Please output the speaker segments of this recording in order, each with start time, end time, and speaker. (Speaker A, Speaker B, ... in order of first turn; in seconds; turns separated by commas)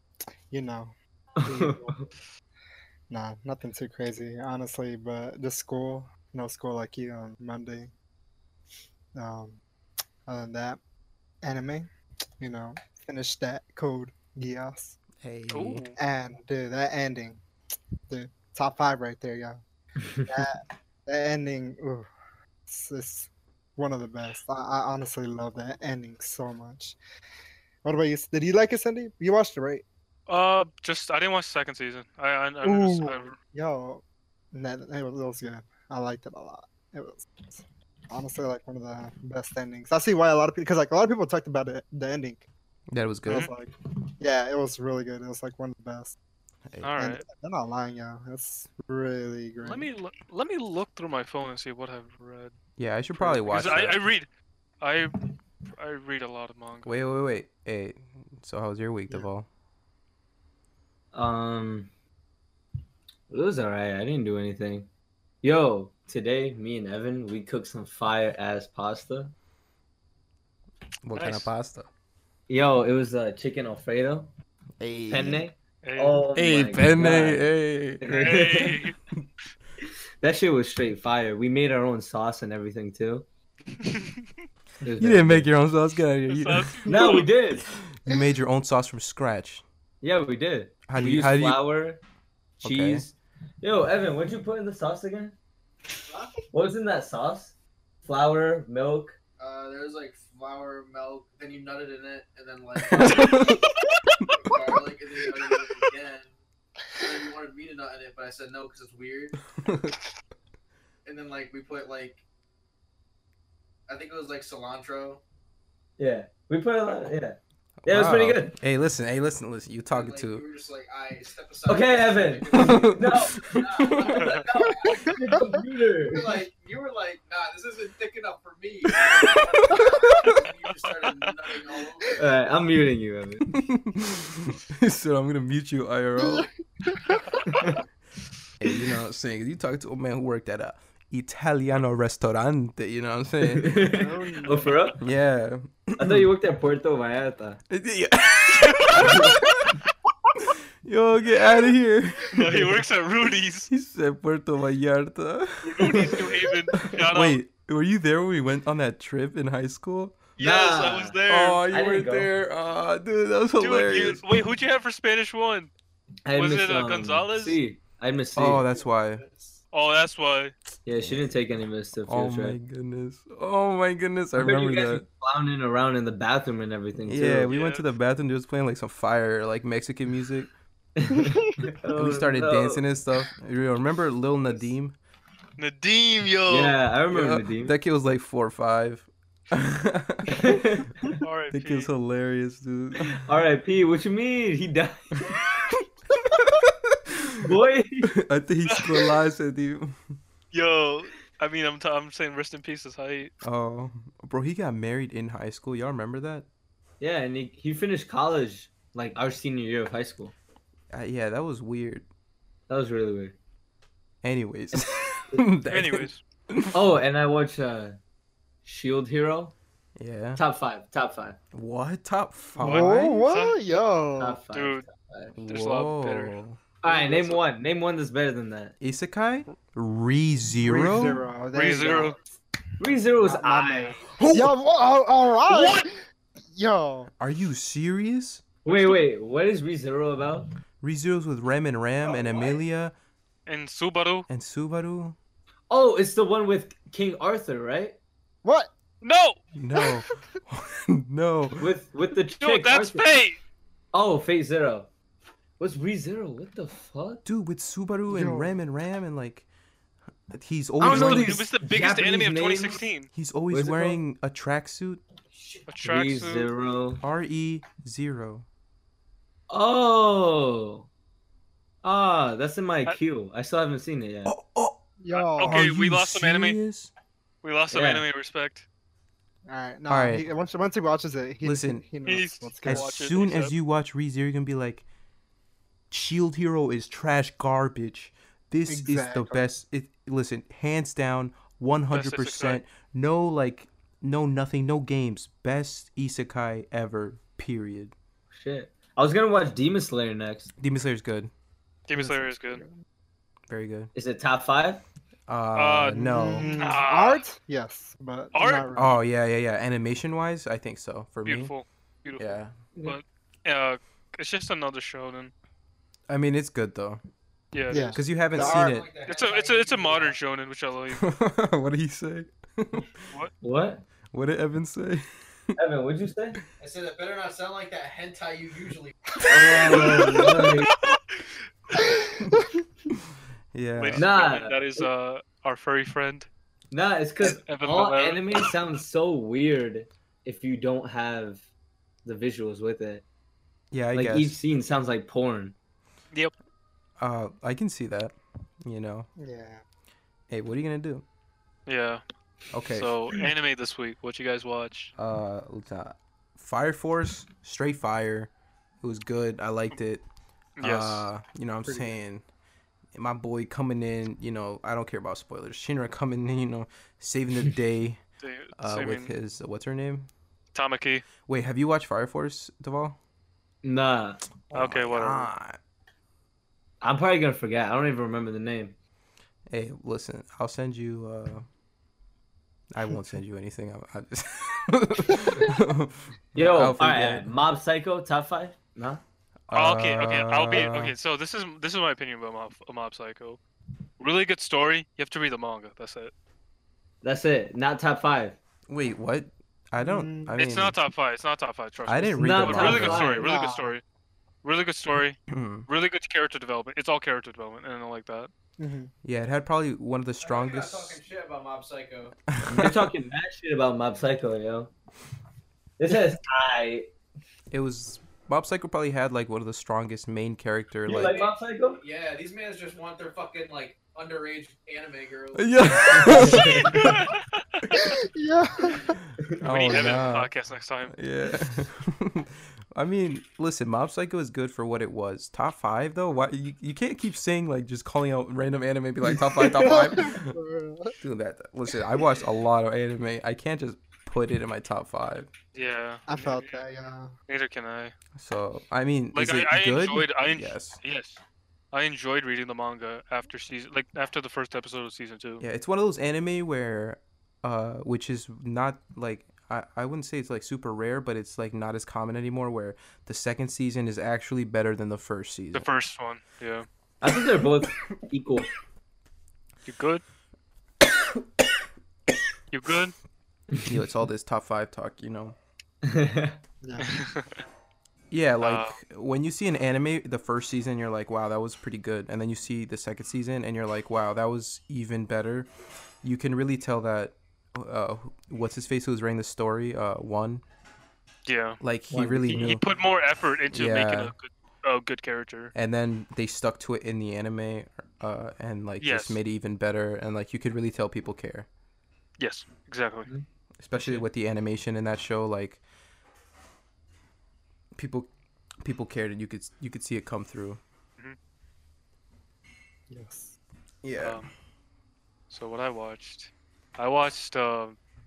Speaker A: 0.5-2.0, Speaker B: 1.4-2.1, Speaker A: 3.1-7.9, Speaker A: 9.1-9.6, Speaker A: 10.3-10.8, Speaker A: 11.4-11.9, Speaker A: 12.4-15.0, Speaker C: 15.2-15.8, Speaker D: 15.5-16.0, Speaker A: 16.0-17.4, Speaker A: 18.1-19.6, Speaker A: 20.2-22.1, Speaker A: 22.7-27.0, Speaker A: 27.8-29.8, Speaker D: 30.3-33.4, Speaker A: 32.6-34.0, Speaker A: 34.5-42.5, Speaker C: 42.9-43.5, Speaker A: 43.2-46.1, Speaker D: 46.8-47.2, Speaker A: 47.0-49.9, Speaker D: 49.6-52.5, Speaker C: 52.8-54.0, Speaker D: 53.4-54.3, Speaker D: 54.8-55.2, Speaker D: 55.7-56.9, Speaker C: 56.8-59.5, Speaker B: 61.1-61.9, Speaker B: 63.3-64.9, Speaker B: 65.4-69.3, Speaker C: 71.0-71.9, Speaker D: 71.1-71.5, Speaker B: 72.5-74.3, Speaker C: 74.8-75.4, Speaker B: 75.1-78.8, Speaker D: 75.8-76.2, Speaker C: 76.3-78.3, Speaker D: 78.1-79.0, Speaker B: 80.2-83.2, Speaker D: 83.8-84.2, Speaker B: 84.8-85.5, Speaker C: 85.0-86.9, Speaker D: 86.3-87.3, Speaker B: 86.9-87.7, Speaker C: 87.7-89.6, Speaker B: 90.0-92.0, Speaker C: 90.9-91.6, Speaker B: 92.6-95.3, Speaker C: 92.6-93.0, Speaker E: 96.0-96.4, Speaker B: 96.5-99.2, Speaker E: 99.4-103.6, Speaker C: 102.9-103.6, Speaker D: 103.0-103.5, Speaker E: 104.4-106.3, Speaker E: 107.0-109.4, Speaker C: 109.6-109.9, Speaker E: 111.0-112.2, Speaker E: 113.9-115.2, Speaker B: 116.0-118.5, Speaker C: 117.8-120.4, Speaker E: 119.9-125.3, Speaker B: 121.7-126.4, Speaker C: 122.5-124.2, Speaker D: 124.2-124.4, Speaker A: 124.9-125.4, Speaker E: 126.0-132.3, Speaker C: 129.2-130.3, Speaker D: 130.8-131.3, Speaker B: 132.2-133.6, Speaker C: 133.5-136.5, Speaker A: 136.2-137.4, Speaker C: 138.6-143.8, Speaker B: 143.4-145.0, Speaker A: 143.9-144.8, Speaker C: 145.0-146.3, Speaker B: 146.0-147.6, Speaker C: 147.7-149.7, Speaker D: 148.6-149.1, Speaker B: 149.0-149.4, Speaker C: 150.5-152.8, Speaker D: 152.3-153.7, Speaker C: 153.7-156.2, Speaker D: 155.6-157.4, Speaker C: 156.9-160.2, Speaker D: 160.4-161.6, Speaker B: 160.4-162.3, Speaker C: 161.3-164.2, Speaker D: 163.6-165.7, Speaker B: 166.2-168.6, Speaker D: 166.3-167.6, Speaker C: 168.3-169.2, Speaker E: 169.2-169.6, Speaker D: 169.7-170.5, Speaker B: 170.8-172.6, Speaker C: 171.0-171.3, Speaker C: 172.1-175.0, Speaker B: 174.3-177.5, Speaker C: 177.0-180.5, Speaker D: 177.5-177.9, Speaker B: 180.9-182.8, Speaker A: 181.3-181.7, Speaker C: 181.9-184.9, Speaker D: 185.6-186.8, Speaker B: 186.5-187.7, Speaker C: 187.1-190.6, Speaker B: 190.3-191.1, Speaker D: 191.2-191.9, Speaker C: 191.5-193.2, Speaker B: 193.1-195.3, Speaker C: 196.4-197.5, Speaker B: 197.3-198.1, Speaker C: 198.1-200.1, Speaker D: 200.5-203.3, Speaker C: 203.4-206.4, Speaker B: 207.0-210.3, Speaker C: 210.9-212.1, Speaker B: 212.7-213.3, Speaker C: 214.2-216.8, Speaker B: 214.7-215.4, Speaker D: 215.7-216.2, Speaker B: 216.7-218.0, Speaker B: 218.6-219.5, Speaker C: 220.0-220.4, Speaker B: 220.3-221.4, Speaker C: 221.5-223.2, Speaker D: 222.6-223.6, Speaker A: 222.6-224.4, Speaker B: 224.2-225.3, Speaker D: 224.5-224.8, Speaker C: 225.3-226.6, Speaker D: 225.5-226.3, Speaker B: 226.8-228.7, Speaker D: 226.9-227.3, Speaker C: 228.8-231.2, Speaker A: 230.6-232.2, Speaker D: 231.5-232.2, Speaker B: 232.8-234.0, Speaker A: 233.2-237.1, Speaker C: 234.1-234.5, Speaker D: 235.5-235.8, Speaker C: 237.2-238.4, Speaker B: 238.6-240.5, Speaker D: 238.7-239.0, Speaker C: 240.8-242.9, Speaker E: 242.1-242.4, Speaker D: 243.4-244.3, Speaker C: 244.3-245.2, Speaker B: 245.7-248.0, Speaker A: 248.4-248.7, Speaker D: 249.0-249.4, Speaker C: 249.5-251.7, Speaker B: 251.6-253.1, Speaker D: 252.4-253.4, Speaker B: 253.9-254.9, Speaker B: 255.6-257.2, Speaker C: 257.2-259.5, Speaker A: 258.1-258.5, Speaker C: 260.3-261.4, Speaker B: 260.8-262.8, Speaker D: 260.8-263.1, Speaker C: 263.1-265.0, Speaker B: 263.5-264.0, Speaker B: 265.4-267.0, Speaker D: 265.7-266.5, Speaker C: 267.0-268.4, Speaker B: 269.5-270.9, Speaker B: 271.8-274.3, Speaker C: 274.2-274.8, Speaker A: 275.0-275.6, Speaker D: 275.1-276.6, Speaker C: 275.4-276.9, Speaker D: 277.4-278.6, Speaker B: 277.7-278.1, Speaker A: 279.5-283.1, Speaker C: 279.9-280.3, Speaker C: 281.4-281.8, Speaker D: 282.0-283.5, Speaker C: 282.6-284.9, Speaker C: 285.9-297.9, Speaker A: 288.7-289.4, Speaker D: 291.9-292.6, Speaker B: 298.3-300.5, Speaker C: 300.6-301.3, Speaker D: 301.9-302.6, Speaker A: 301.9-302.8, Speaker C: 303.5-303.9, Speaker B: 303.9-304.8, Speaker C: 305.3-306.6, Speaker D: 305.5-307.2, Speaker A: 305.9-309.0, Speaker D: 308.3-308.7, Speaker C: 308.7-311.5, Speaker D: 311.2-315.3, Speaker C: 312.2-312.5, Speaker C: 316.1-317.0, Speaker D: 317.5-318.0, Speaker A: 317.7-318.8, Speaker C: 317.9-318.9, Speaker E: 318.3-320.2, Speaker D: 319.1-321.0, Speaker C: 320.9-322.9, Speaker B: 323.4-323.8, Speaker C: 324.1-325.0, Speaker B: 325.6-326.4, Speaker E: 326.6-328.9, Speaker B: 329.3-330.7, Speaker D: 330.1-331.3, Speaker A: 331.8-332.4, Speaker C: 333.5-334.1, Speaker D: 333.8-336.3, Speaker B: 333.9-334.9, Speaker B: 336.7-341.4, Speaker D: 337.2-338.5, Speaker B: 342.0-343.0, Speaker C: 343.7-344.4, Speaker B: 343.9-345.5, Speaker C: 347.0-349.1, Speaker A: 349.2-349.6, Speaker C: 350.3-351.0, Speaker D: 351.7-352.0, Speaker C: 352.5-352.9, Speaker D: 352.7-354.9, Speaker C: 355.0-358.3, Speaker C: 358.8-360.0, Speaker D: 360.6-361.1, Speaker C: 360.6-362.2, Speaker A: 361.6-362.0, Speaker C: 362.9-368.0, Speaker D: 368.2-369.1, Speaker C: 368.5-370.1, Speaker D: 370.5-371.0, Speaker C: 371.3-373.0, Speaker B: 373.6-374.2, Speaker C: 374.5-375.6, Speaker D: 374.5-375.3, Speaker B: 376.8-378.7, Speaker C: 379.5-381.4, Speaker C: 382.7-387.3, Speaker B: 386.3-389.0, Speaker C: 389.5-390.9, Speaker D: 389.5-393.4, Speaker D: 394.0-396.1, Speaker B: 397.0-398.4, Speaker C: 398.7-400.8, Speaker A: 399.8-400.4, Speaker D: 400.4-403.8, Speaker C: 401.9-403.1, Speaker B: 402.2-403.3, Speaker A: 403.2-403.7, Speaker D: 404.4-408.3, Speaker C: 405.3-405.7, Speaker A: 408.6-408.9, Speaker C: 409.0-411.0, Speaker E: 410.2-412.1, Speaker C: 412.3-412.9, Speaker B: 412.5-414.7, Speaker B: 415.8-416.9, Speaker C: 417.5-421.1, Speaker B: 420.9-421.8, Speaker E: 421.0-426.8, Speaker C: 425.3-427.0, Speaker B: 426.0-426.8, Speaker D: 426.6-427.6, Speaker A: 427.7-429.0, Speaker C: 428.9-430.3, Speaker D: 429.4-430.9, Speaker C: 430.9-440.4, Speaker B: 439.2-439.6, Speaker A: 439.4-440.9, Speaker C: 441.0-445.3, Speaker D: 445.5-446.6, Speaker A: 446.1-447.1, Speaker D: 447.3-447.9, Speaker C: 448.1-450.8, Speaker D: 449.1-451.2, Speaker D: 451.7-455.4, Speaker C: 455.4-465.6, Speaker D: 465.5-466.7, Speaker B: 467.0-468.5, Speaker D: 469.6-470.0, Speaker D: 472.5-472.9, Speaker C: 473.6-475.4, Speaker B: 475.8-476.4, Speaker A: 476.6-477.0, Speaker D: 476.8-477.4, Speaker C: 478.1-485.5, Speaker D: 478.4-478.8, Speaker C: 486.0-490.4, Speaker D: 491.2-491.6, Speaker C: 491.6-492.6, Speaker B: 491.9-492.6, Speaker D: 492.3-495.5, Speaker C: 493.5-494.1, Speaker C: 495.5-501.5, Speaker D: 498.8-499.2, Speaker D: 502.2-503.1, Speaker C: 503.6-505.6, Speaker C: 507.7-508.1, Speaker C: 508.6-510.6, Speaker A: 512.9-513.3, Speaker C: 513.8-514.2, Speaker D: 514.0-514.3, Speaker D: 515.3-517.8